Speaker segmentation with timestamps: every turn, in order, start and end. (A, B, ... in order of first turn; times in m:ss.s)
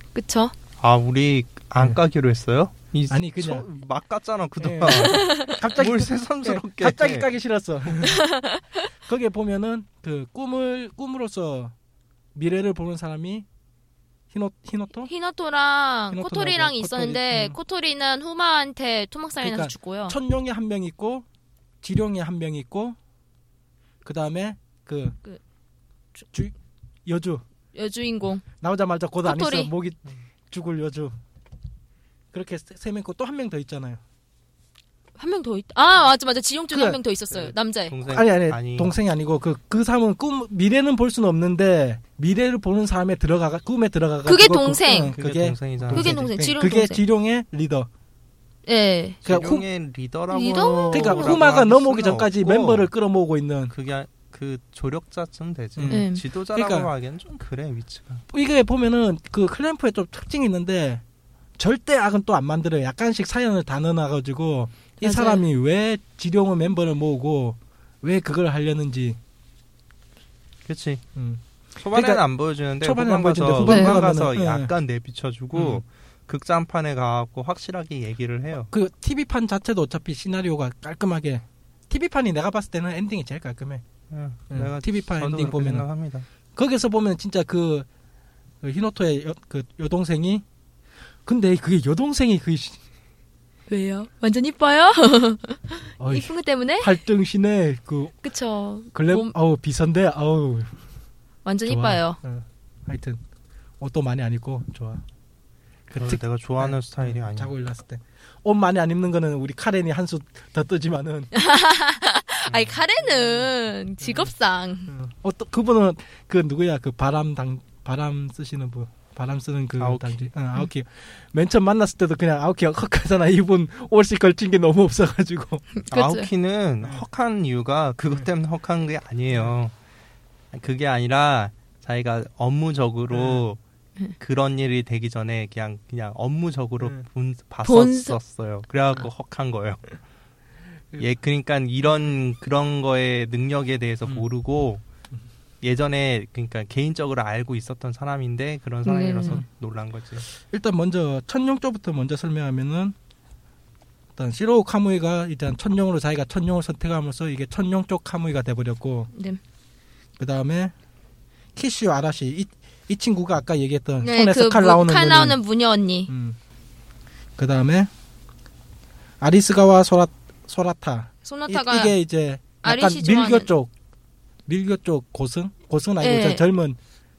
0:00.2-0:00.5 A
0:00.8-0:07.3 B
0:03.1-0:03.7 C
0:04.6-0:08.2 C
0:05.0-0:05.5 A
0:08.0-0:08.6 A
0:09.1-0:11.7 C
0:12.4-0:13.5 C
0:14.3-0:15.1 C
0:15.0-0:20.2 A
0:16.1-0:17.6 C
0:19.4-0:21.3 C
0:21.8-0:23.0 C
0:24.0-0:25.2 C
0:26.2-0:26.6 C
0:27.1-0:27.4 C
0:27.7-0:28.5 A
0:28.6-0:31.2 C
0:29.2-0:29.7 A
0:32.3-0:34.0 C
0:35.2-0:37.9 A
0:36.7-0:37.0 C
0:37.4-0:38.9 B
0:38.1-0:47.9 C
0:44.2-0:45.1 A
0:45.1-0:46.3 B
0:45.9-0:47.0 A
0:48.7-0:49.2 A
0:49.2-0:52.9 B
0:49.3-0:49.6 C
0:50.3-0:51.4 A
0:50.9-0:53.7 C
0:53.7-0:58.2 B
0:55.8-0:56.9 C
0:55.9-0:56.2 A
0:58.3-1:01.0 C
1:01.6-1:09.2 C
1:05.0-1:05.4 A
1:10.7-1:11.0 B
1:11.2-1:12.2 C
1:11.8-1:18.7 B
1:12.8-1:14.7 C
1:13.7-1:14.0 A
1:15.6-1:15.8 C
1:18.7-1:23.8 C
1:24.1-1:26.3 B
1:24.5-1:25.8 C
1:26.6-1:27.9 C
1:28.6-1:30.4 C
1:31.3-1:32.8 C
1:33.7-1:36.9 A
1:36.0-1:38.2 C
1:38.2-1:39.3 A
1:38.9-1:40.8 C
1:41.4-1:42.2 A
1:41.6-1:43.2 C
1:43.8-1:45.0 C
1:45.9-1:51.3 C
1:46.0-1:47.5 B
1:51.4-1:54.9 A
1:52.5-1:52.8 B
1:53.2-1:53.4 C
1:54.0-1:54.3 C
1:54.9-2:05.7 C
1:59.8-2:00.2 B
2:05.8-2:06.3 A
2:05.9-2:09.7 B
2:10.5-2:13.6 B
2:13.1-2:13.4 C
2:14.2-2:20.0 B
2:17.6-2:18.2 A
2:21.0-2:24.8 B
2:25.6-2:30.3 B
2:28.8-2:29.4 A
2:30.3-2:33.0 C
2:34.2-2:39.1 C
2:39.2-2:39.4 A
2:40.2-2:40.7 C
2:41.6-2:45.4 C
2:44.0-2:46.1 A
2:46.1-2:46.4 C
2:47.4-2:47.9 C
2:49.2-2:53.7 C
2:51.2-2:52.0 A
2:52.6-2:53.5 A
2:54.5-2:56.8 C
2:56.0-2:56.4 A